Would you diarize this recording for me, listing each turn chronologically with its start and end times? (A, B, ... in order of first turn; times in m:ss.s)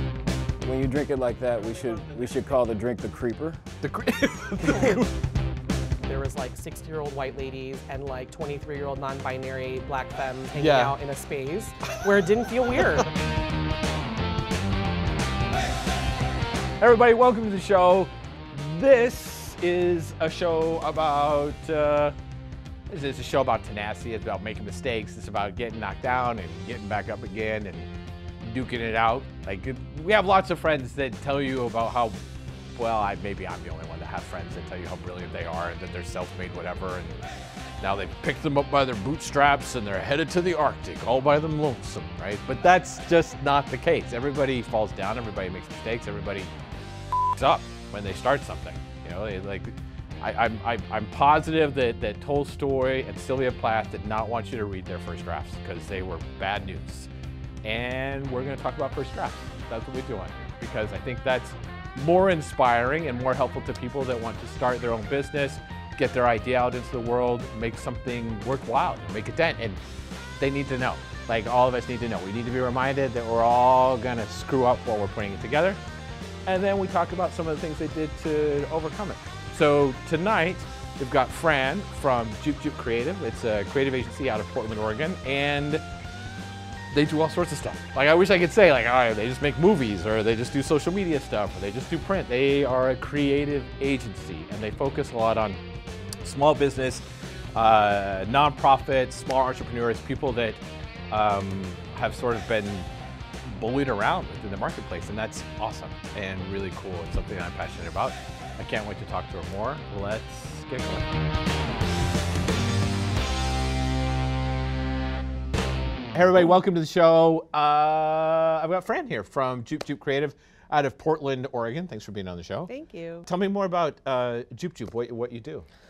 0:00.6-0:03.6 A
0:03.8-0:05.1 B
0:06.0-0:13.1 C
0:10.5-0:11.0 B
0:16.8-0:22.2 B
0:22.9-0:27.9 B
0:28.4-0:32.2 B
0:32.8-0:37.2 B
0:37.8-0:46.5 B
0:47.1-0:57.1 B
0:57.6-1:09.8 B
1:10.4-1:15.8 B
1:16.4-1:25.8 B
1:26.9-1:35.6 B
1:36.2-1:37.0 B
1:37.6-1:42.9 B
1:43.4-1:51.1 B
1:56.1-2:02.7 B
2:02.7-2:03.3 C
2:03.2-2:05.7 B